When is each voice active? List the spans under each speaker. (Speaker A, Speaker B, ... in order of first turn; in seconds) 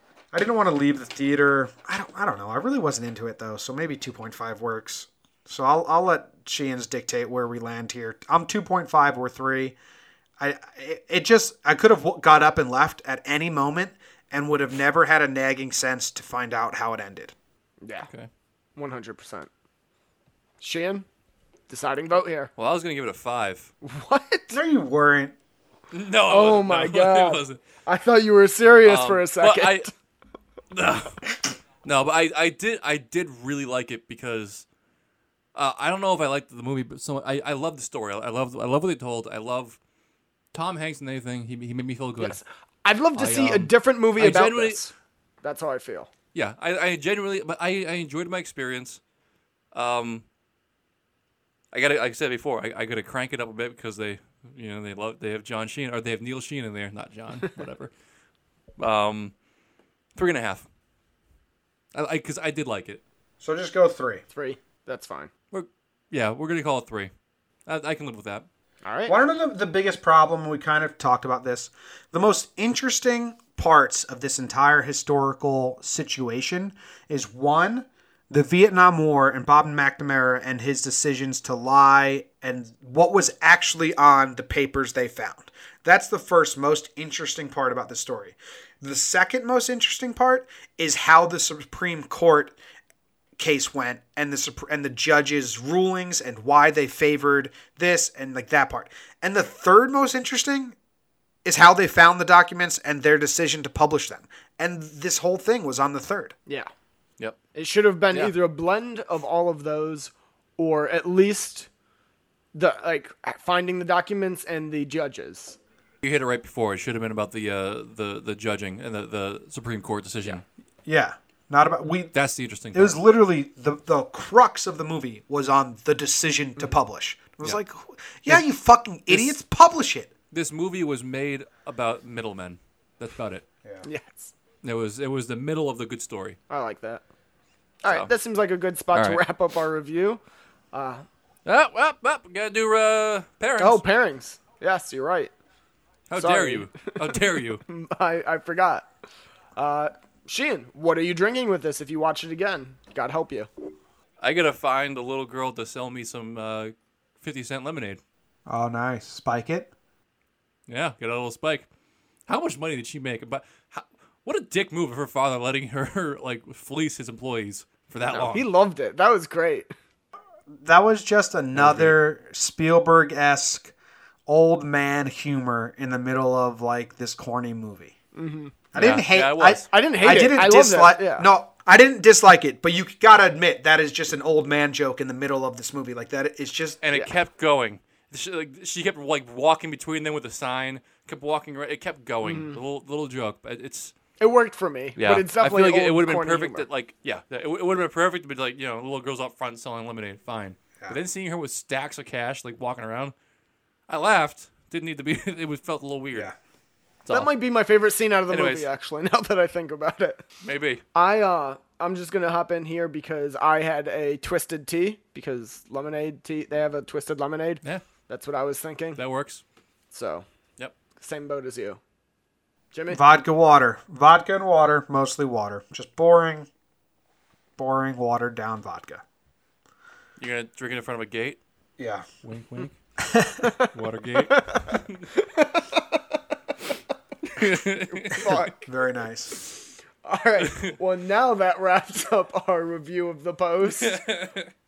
Speaker A: 0.3-9.8, 10.4-17.3, 24.5-25.3, 63.4-64.2, 69.0-92.5, 93.4-100.8, 101.4-106.3, 120.8-122.1, 122.7-130.1, 158.5-159.7, 170.5-173.7, 174.3-177.9, 178.7-186.8, 222.9-226.5, 227.6-229.0, 231.8-232.1, 233.0-233.4, 238.6-239.4
Speaker B: 17.8-18.1, 18.8-19.5, 20.6-21.1, 21.7-22.5, 23.8-24.6, 26.3-29.9, 42.2-44.9, 45.4-46.1, 64.3-65.3, 68.8-69.1, 107.5-111.7, 112.5-115.6, 133.8-134.3, 136.5-137.0, 137.8-140.2, 140.7-141.1, 143.6-145.3, 146.2-148.9, 149.6-153.5, 168.1-169.7, 178.1-178.6, 179.7-181.3, 192.2-192.6, 194.2-196.6, 207.1-210.2, 210.9-219.0, 219.9-220.2, 220.9-221.8, 222.7-223.0, 234.3-234.6, 235.1-236.0, 237.9-238.7, 240.0-244.0
Speaker C: 22.6-23.7, 25.9-27.6, 28.8-29.9, 30.7-34.6, 35.5-39.8, 40.5-42.4, 43.1-44.8, 46.3-49.0, 49.7-50.2, 51.7-57.9, 58.8-59.3, 60.1-60.6, 61.9-63.0, 65.5-67.1, 67.7-68.5, 116.0-120.4, 122.1-123.0, 129.1-129.4, 130.3-133.4, 134.6-136.4, 138.9-139.2, 141.4-143.8, 146.1-147.6, 154.2-158.0, 160.7-161.7, 162.3-168.5, 171.5-171.9, 178.7-179.7, 186.8-193.9, 195.0-203.1, 203.9-206.3, 207.0-207.3, 208.3-208.7, 210.4-210.8, 219.0-219.4, 230.2-231.4, 232.2-232.7, 233.7-235.1, 237.3-238.5, 240.4-240.7, 243.7-244.5